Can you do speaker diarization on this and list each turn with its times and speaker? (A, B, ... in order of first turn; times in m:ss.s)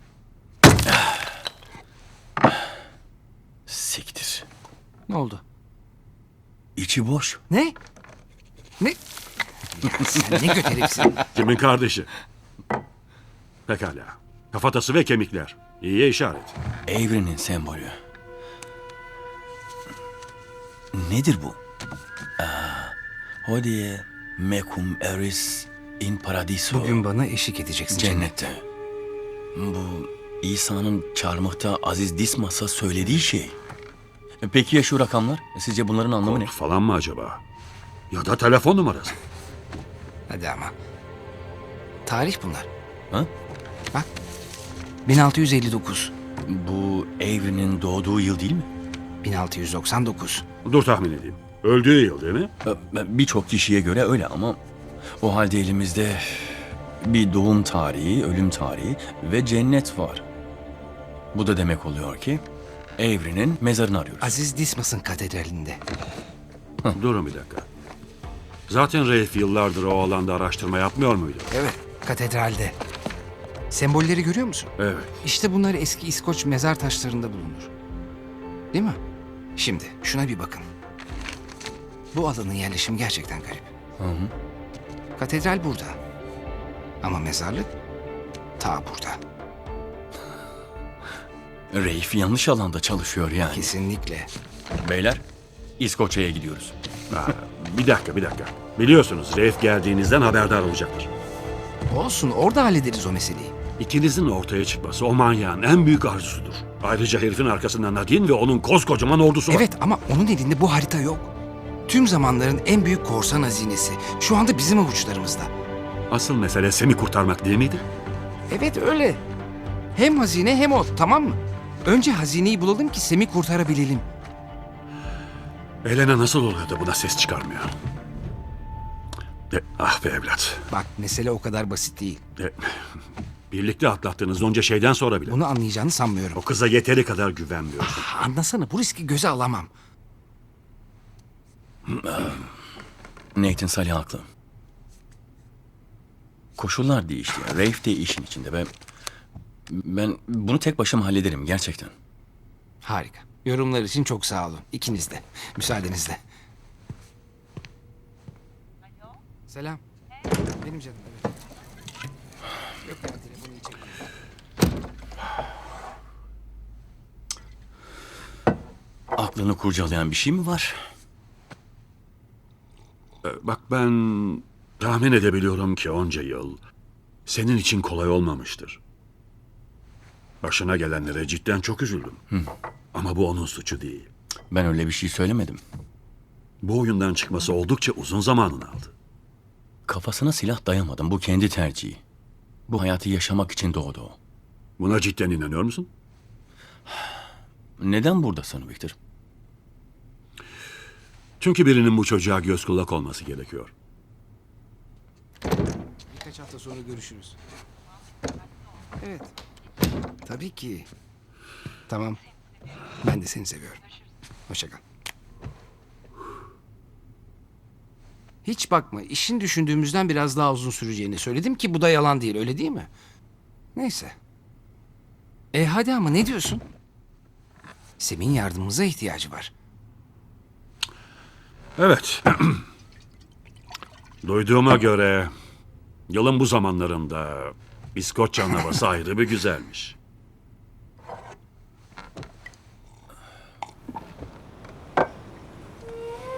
0:00.8-0:01.3 A
0:03.7-0:04.4 A
0:05.1-0:05.4 B
0:06.8-0:07.4 A
0:07.5-0:07.8 B
0:09.7-0:11.2 B
0:11.3-0:12.1 C
0:13.7-0:16.5 C
0:16.9-0:18.0 A
0:20.9-0:21.6 A
0:22.4-0:27.0 A
0:26.7-0:28.3 B
0:27.9-0:28.6 A
0:29.5-0:33.6 A
0:34.4-0:36.5 A
0:36.2-0:37.4 C
0:38.1-0:39.2 C
0:40.3-0:40.7 B
0:42.0-0:42.7 B
0:45.0-0:46.1 B
0:46.4-0:48.7 A
0:49.2-0:50.4 B
0:50.6-0:52.5 C
0:52.6-0:54.6 A
0:55.2-1:00.2 A
1:01.3-1:02.4 A
1:03.0-1:04.4 A
1:04.2-1:05.8 B
1:06.9-1:07.6 C
1:08.7-1:11.5 C
1:11.5-1:12.8 B
1:13.7-1:14.7 B
1:14.8-1:15.1 C
1:15.2-1:17.7 B
1:18.7-1:19.0 B
1:19.6-1:20.7 B
1:22.1-1:23.7 B
1:24.0-1:24.3 A
1:25.2-1:26.0 B
1:27.0-1:27.7 B
1:28.6-1:29.2 B
1:31.7-1:33.7 A
1:33.5-1:34.3 B
1:34.8-1:35.2 A
1:35.8-1:36.7 A
1:37.1-1:41.1 C
1:41.9-1:43.5 B
1:43.8-1:49.6 C
1:49.5-1:51.3 B
1:51.9-1:55.5 B
1:56.1-1:57.8 C
1:58.5-1:59.2 B
1:59.9-2:04.0 B
2:05.8-2:07.7 C
2:09.5-2:10.7 C
2:10.7-2:12.2 B
2:12.4-2:15.4 C
2:15.3-2:16.4 B
2:16.4-2:18.1 C
2:17.8-2:19.7 B
2:21.9-2:22.5 A
2:23.3-2:24.2 A
2:26.6-2:28.7 A
2:29.7-2:31.9 A
2:32.8-2:36.2 B
2:39.5-2:39.8 B
2:40.6-2:41.4 B
2:42.8-2:44.1 B
2:49.1-2:50.8 A
2:53.2-2:56.6 C
2:57.3-2:58.8 C
3:00.4-3:02.2 C
3:02.9-3:04.1 C
3:04.5-3:05.6 A
3:06.6-3:08.9 C
3:09.9-3:12.0 A
3:12.7-3:14.2 A
3:14.8-3:15.9 C
3:17.8-3:18.9 A
3:21.4-3:23.7 C
3:26.1-3:27.4 B
3:29.0-3:29.3 B
3:30.2-3:30.9 B
3:31.9-3:32.2 B
3:33.0-3:33.8 B
3:34.5-3:34.8 B
3:38.4-3:42.9 B
3:43.7-3:44.2 B
3:45.5-3:46.6 B
3:48.0-3:49.5 B
3:51.8-3:52.6 C
3:54.2-3:55.3 C
3:56.1-3:59.9 C